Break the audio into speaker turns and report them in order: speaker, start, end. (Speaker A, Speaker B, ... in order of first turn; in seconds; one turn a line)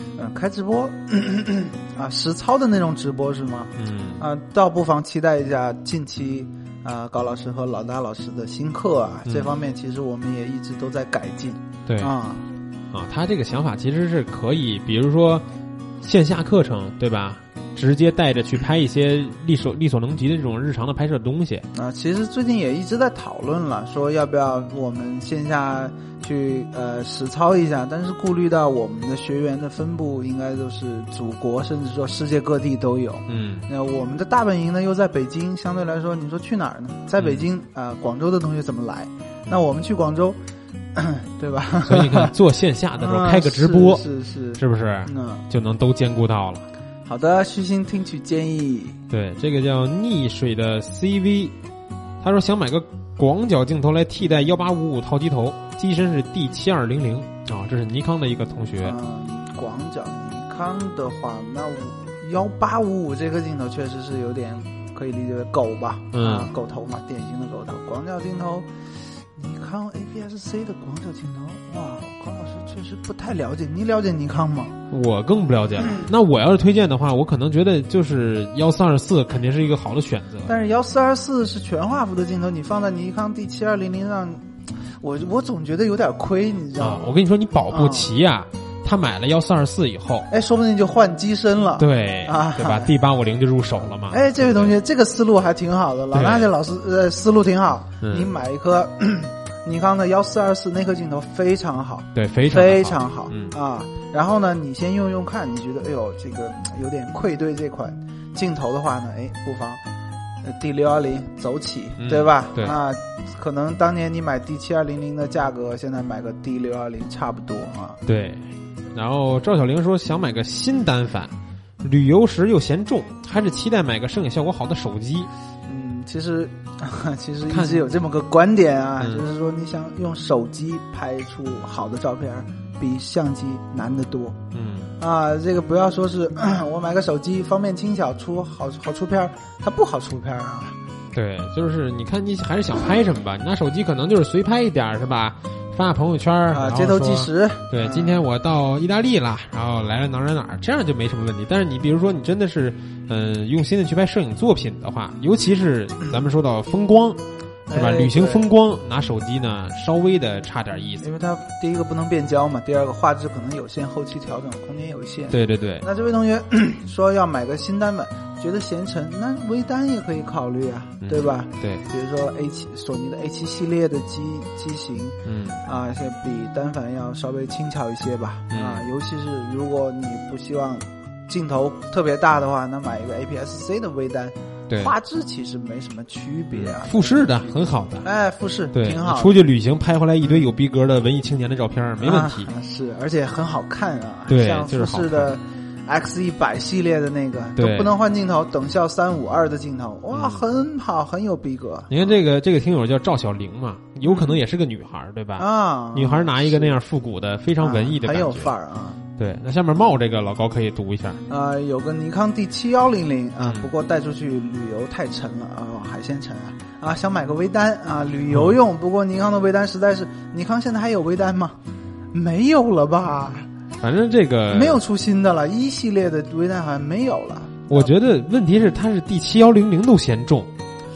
Speaker A: 0.2-12.5
Speaker B: 3.8-4.2
Speaker B: 11.9-12.1
Speaker B: 12.9-15.4
Speaker B: 16.0-21.7
Speaker A: 21.7-40.4
Speaker B: 33.3-33.7
Speaker B: 37.2-37.5
Speaker A: 41.0-42.3
Speaker B: 41.9-44.0
Speaker A: 43.0-45.5
Speaker B: 44.6-46.7
Speaker A: 47.1-49.0
Speaker B: 49.1-51.5
Speaker B: 52.2-59.0
Speaker A: 58.8-68.7
Speaker B: 66.1-66.5
Speaker A: 69.4-74.7
Speaker B: 74.9-80.5
Speaker A: 80.5-84.5
Speaker A: 85.0-87.2
Speaker B: 86.8-90.3
Speaker A: 87.7-88.1
Speaker A: 90.3-92.9
Speaker B: 91.8-94.8
Speaker A: 94.1-109.8
Speaker B: 96.1-96.5
Speaker B: 98.0-98.3
Speaker B: 102.2-103.5
Speaker A: 110.4-118.0
Speaker B: 112.0-112.8
Speaker B: 118.1-125.3
Speaker A: 125.7-134.4
Speaker B: 127.5-127.9
Speaker B: 134.5-134.9
Speaker A: 135.0-140.8
Speaker B: 141.1-157.2
Speaker A: 146.5-148.2
Speaker A: 157.7-158.5
Speaker B: 157.7-161.1
Speaker A: 161.0-189.4
Speaker B: 165.3-165.9
Speaker B: 171.0-171.8
Speaker B: 175.2-175.6
Speaker B: 178.5-178.9
Speaker B: 184.7-184.9
Speaker B: 186.5-188.1
Speaker B: 188.7-192.5
Speaker A: 190.2-190.5
Speaker A: 192.0-202.1
Speaker B: 194.3-195.3
Speaker B: 197.6-197.9
Speaker B: 200.1-200.4
Speaker B: 201.9-208.5
Speaker A: 204.1-204.4
Speaker A: 205.4-206.8
Speaker A: 207.6-209.0
Speaker B: 209.2-211.2
Speaker A: 211.3-221.6
Speaker B: 213.4-213.7
Speaker B: 218.3-218.6
Speaker A: 222.1-223.5
Speaker B: 223.8-224.8
Speaker A: 224.5-227.9
Speaker B: 227.7-230.5